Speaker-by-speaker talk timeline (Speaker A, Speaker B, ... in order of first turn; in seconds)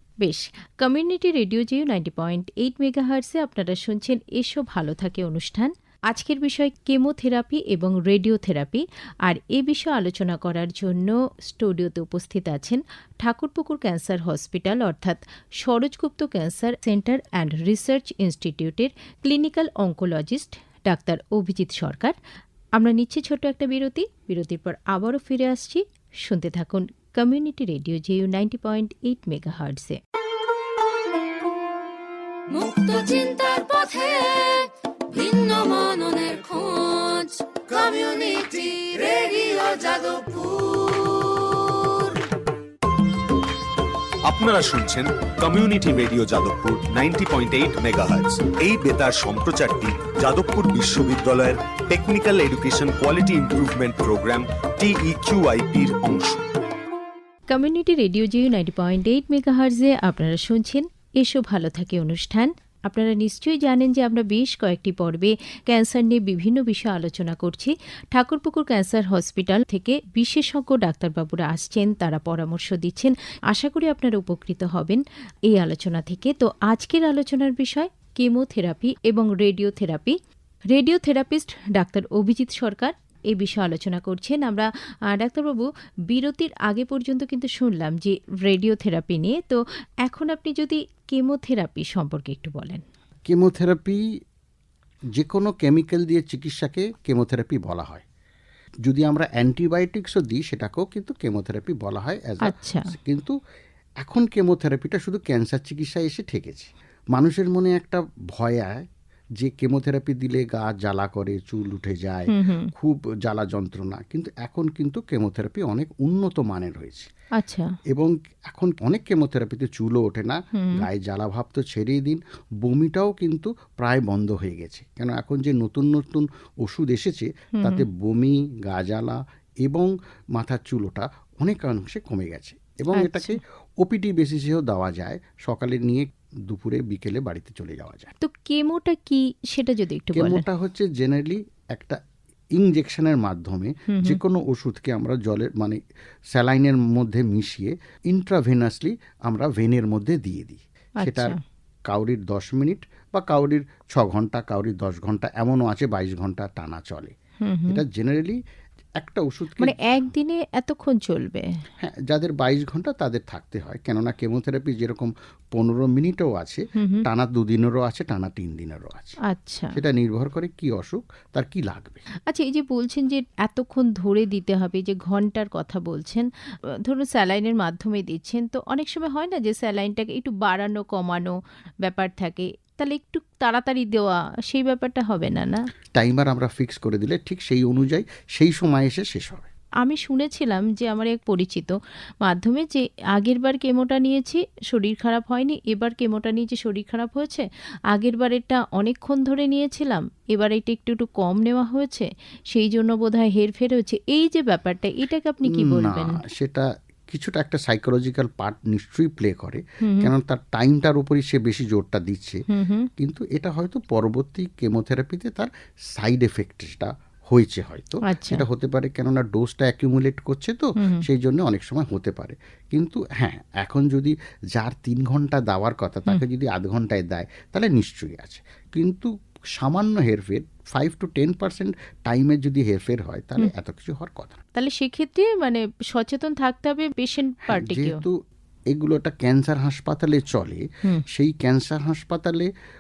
Speaker A: 0.2-22.2, 22.8-30.0, 57.5-80.2, 80.7-92.8, 102.5-102.9, 112.3-112.7, 117.4-117.8, 120.6-120.8, 127.6-127.8, 132.9-133.4, 138.2-140.4, 143.9-144.2, 151.0-151.4, 157.4-157.8, 159.6-161.5, 166.8-167.1, 169.3-169.8, 172.3-176.3, 176.8-185.6, 189.8-206.2, 209.8-210.1, 212.5-212.9, 218.1-218.4, 220.8-221.1, 234.6-238.0
Speaker B: 32.5-40.7
Speaker C: 44.2-56.4
Speaker D: 93.3-94.0, 95.1-98.0, 98.8-103.3, 104.0-117.1, 117.9-138.2, 140.1-142.0, 142.6-145.8, 146.3-151.3, 151.9-157.2, 157.7-158.4, 159.0-160.1, 161.8-169.2, 169.7-172.1, 185.9-189.5, 205.5-212.4, 213.0-234.4, 237.5-238.2, 238.7-242.5